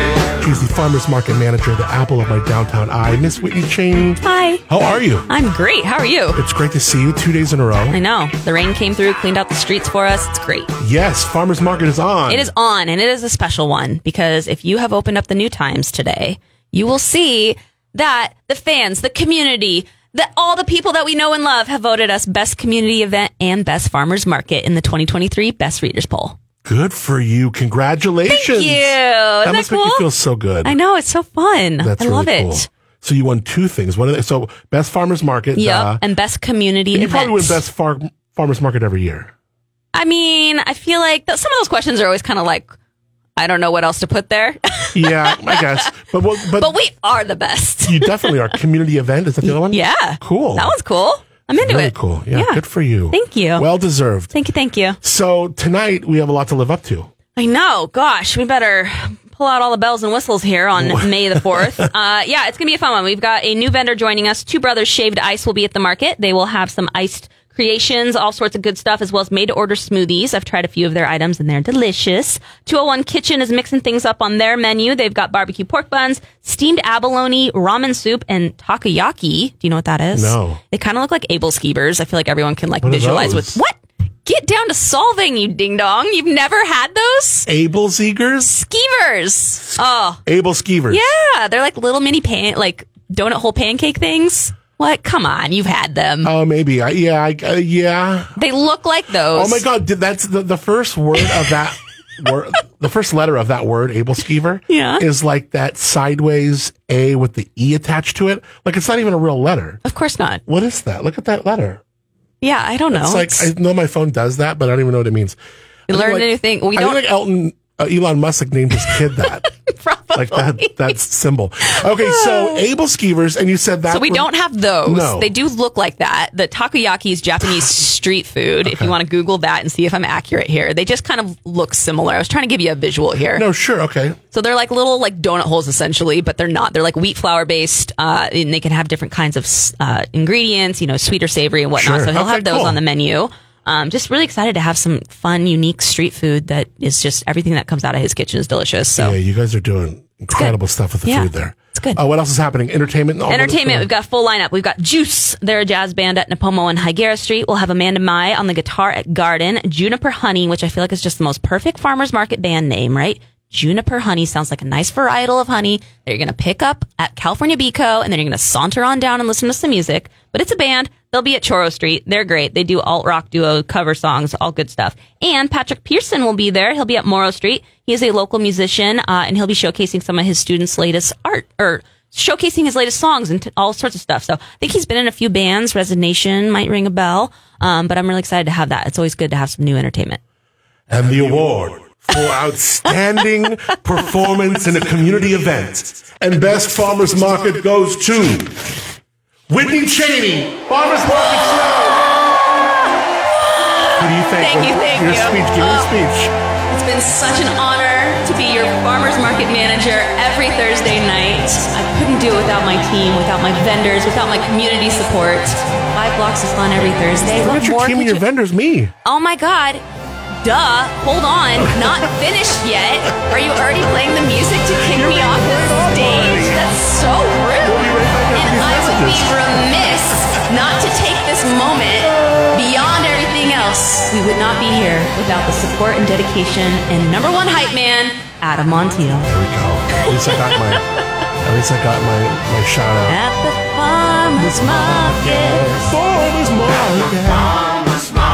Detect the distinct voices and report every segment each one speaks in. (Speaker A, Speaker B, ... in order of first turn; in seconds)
Speaker A: 0.4-5.3, 6.3-8.0, 10.8-12.5, 26.6-30.8, 31.8-36.0, 36.9-39.3, 44.9-46.7, 47.9-50.8, 51.5-54.3, 55.0-57.1, 60.8-61.1, 61.6-61.8, 80.1-80.6, 82.8-83.6, 87.5-88.5, 90.3-91.0, 96.2-98.3, 99.3-109.8, 110.5-111.8, 112.9-115.4, 115.9-119.5, 120.2-124.3, 124.8-125.3, 128.6-128.9, 133.3-134.2, 141.8-142.8, 149.0-153.9, 190.9-198.6, 199.5-202.0, 203.9-206.3, 217.3-218.9, 224.8-226.7, 227.6-229.5, 239.3-240.9, 241.4-243.2, 244.3-247.6
Speaker B: 4.2-4.6, 5.3-6.4, 7.9-10.8, 12.3-26.4, 28.3-30.1, 30.6-32.7, 35.5-37.6, 39.9-42.7, 43.4-48.5, 49.4-53.7, 54.3-55.0, 57.4-83.7, 84.2-87.5, 88.4-90.2, 90.9-96.3, 98.4-99.6, 104.7-105.0, 109.8-110.4, 112.4-113.5, 115.9-117.0, 118.9-121.0, 121.7-122.7, 123.9-133.4, 134.3-149.2, 150.3-152.0, 153.3-190.2, 201.1-205.9, 206.7-218.2, 219.0-219.8, 220.4-239.3, 240.0-240.8, 243.1-246.0